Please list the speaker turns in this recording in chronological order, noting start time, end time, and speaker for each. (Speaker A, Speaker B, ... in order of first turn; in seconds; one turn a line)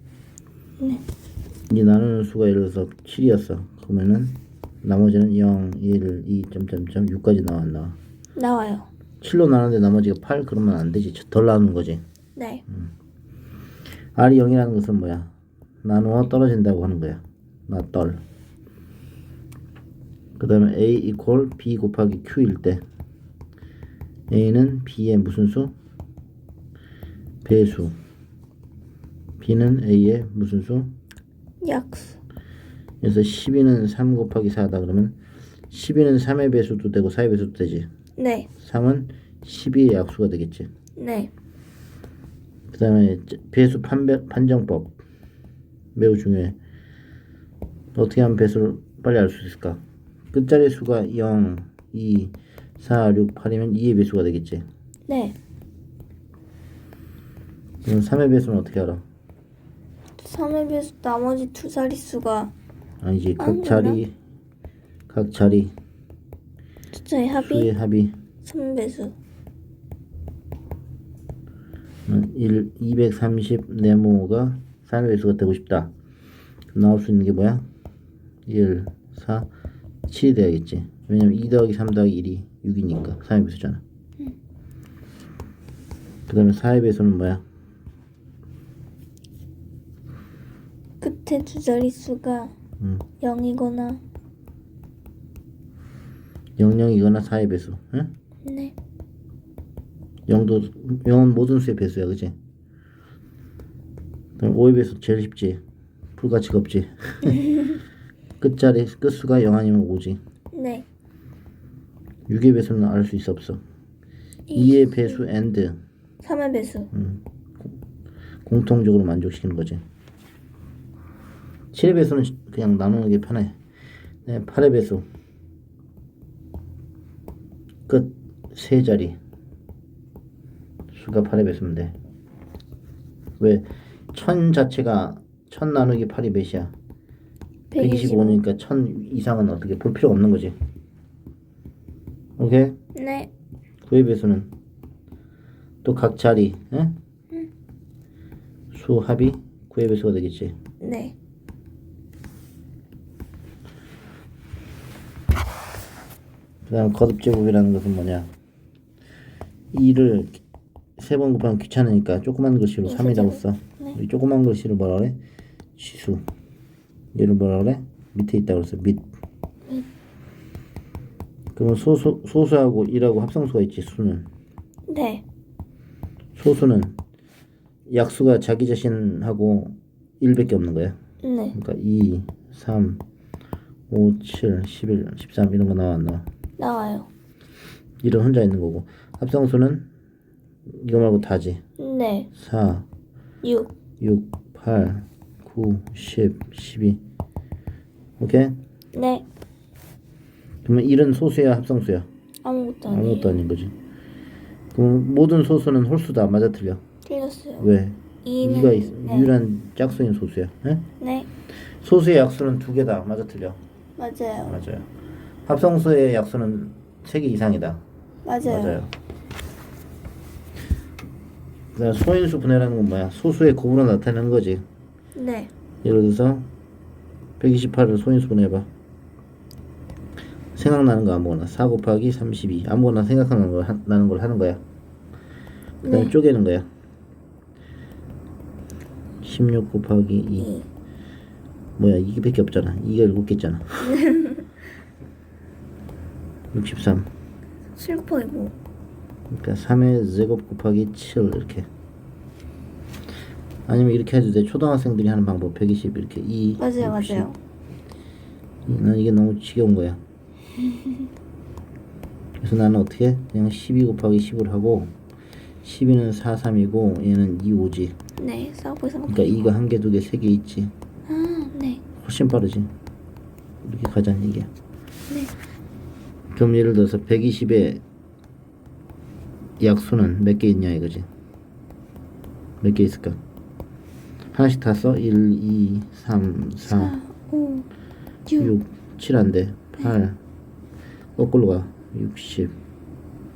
Speaker A: 1.7-8.0
Speaker B: 8.3-8.9
Speaker A: 9.2-12.0
Speaker B: 12.3-12.6
Speaker A: 14.1-15.3
Speaker A: 15.8-18.2
Speaker A: 20.4-22.8
Speaker A: 24.3-25.7
Speaker A: 27.4-27.9
Speaker A: 29.4-30.9
Speaker B: 31.6-32.2
Speaker A: 33.0-35.2
Speaker A: 35.7-37.9
Speaker B: 38.2-38.5
Speaker A: 38.6-40.7
Speaker B: 41.0-41.3
Speaker A: 42.7-45.0
Speaker A: 45.9-46.6
Speaker A: 47.9-54.6
Speaker B: 55.1-55.4
Speaker A: 57.8-59.0
Speaker B: 60.2-62.5
Speaker A: 63.0-64.1
Speaker B: 63.4-64.0
Speaker A: 65.1-65.7
Speaker B: 66.9-67.7
Speaker A: 67.3-68.1
Speaker B: 68.4-69.1
Speaker A: 72.1-75.9
Speaker A: 76.7-77.6
Speaker A: 78.5-79.5
Speaker A: 80.1-83.8
Speaker A: 86.3-87.4
Speaker B: 91.0-92.5
Speaker A: 92.8-93.0
Speaker B: 93.2-94.0
Speaker A: 96.6-98.1
Speaker B: 98.4-98.7
Speaker A: 100.3-102.3
Speaker A: 104.4-105.6
Speaker A: 106.2-107.5
Speaker A: 108.4-110.2
Speaker B: 110.5-110.8
Speaker A: 112.3-113.6
Speaker B: 114.5-115.2
Speaker A: 114.5-115.8
Speaker B: 116.2-116.9
Speaker A: 116.9-117.2
Speaker A: 118.4-119.8
Speaker A: 121.7-123.5
Speaker A: 124.2-125.0
Speaker A: 127.9-129.2
Speaker A: 130.9-131.9
Speaker A: 133.4-136.7
Speaker B: 137.7-138.4
Speaker A: 137.8-140.5
Speaker A: 142.4-142.8
Speaker B: 142.9-143.3
Speaker A: 143.8-144.5
Speaker A: 145.8-146.9
Speaker A: 148.7-150.5
Speaker B: 150.8-151.1
Speaker A: 156.7-158.3
Speaker A: 159.7-160.4
Speaker A: 161.0-165.2
Speaker B: 162.8-164.0
Speaker A: 165.8-166.2
Speaker A: 167.1-169.0
Speaker A: 171.5-174.3
Speaker B: 174.9-175.2
Speaker A: 176.3-177.0
Speaker A: 177.9-180.9
Speaker B: 181.2-181.6
Speaker A: 181.5-183.0
Speaker A: 183.9-186.2
Speaker B: 186.6-187.1
Speaker A: 188.0-189.9
Speaker A: 190.7-191.6
Speaker B: 191.8-192.3
Speaker A: 192.3-192.9
Speaker B: 193.4-193.7
Speaker A: 194.0-197.0
Speaker A: 198.2-198.6
Speaker B: 198.9-199.2
Speaker A: 200.6-202.1
Speaker B: 202.4-203.4
Speaker A: 202.9-203.7
Speaker A: 204.7-206.8
Speaker B: 207.1-207.7
Speaker A: 207.6-210.9
Speaker B: 208.2-209.3
Speaker B: 211.0-211.3
Speaker A: 211.8-213.6
Speaker B: 214.0-214.6
Speaker A: 214.4-214.9
Speaker A: 215.4-217.8
Speaker B: 218.2-218.8
Speaker A: 218.4-218.9
Speaker A: 221.7-224.6
Speaker B: 225.2-225.5
Speaker A: 225.8-226.5
Speaker A: 227.4-228.7
Speaker A: 230.6-234.6
Speaker B: 235.8-236.1
Speaker A: 235.8-236.7
Speaker A: 239.2-240.5
Speaker B: 240.4-240.7
Speaker A: 241.8-244.0
Speaker B: 243.9-244.4
Speaker A: 246.5-247.1
Speaker B: 247.8-248.5
Speaker A: 249.3-251.7
Speaker A: 253.7-257.3
Speaker B: 256.6-257.4
Speaker A: 258.6-260.0
Speaker A: 262.4-264.9
Speaker A: 265.6-267.9
Speaker B: 268.2-269.5
Speaker A: 269.1-270.7
Speaker B: 271.1-271.8
Speaker A: 272.0-272.7
Speaker A: 273.6-274.5
Speaker A: 276.3-277.8
Speaker A: 279.6-281.1
Speaker A: 282.6-283.2
Speaker A: 284.3-286.9
Speaker B: 286.6-287.7
Speaker B: 288.2-288.5
Speaker A: 288.4-290.2
Speaker A: 291.2-292.5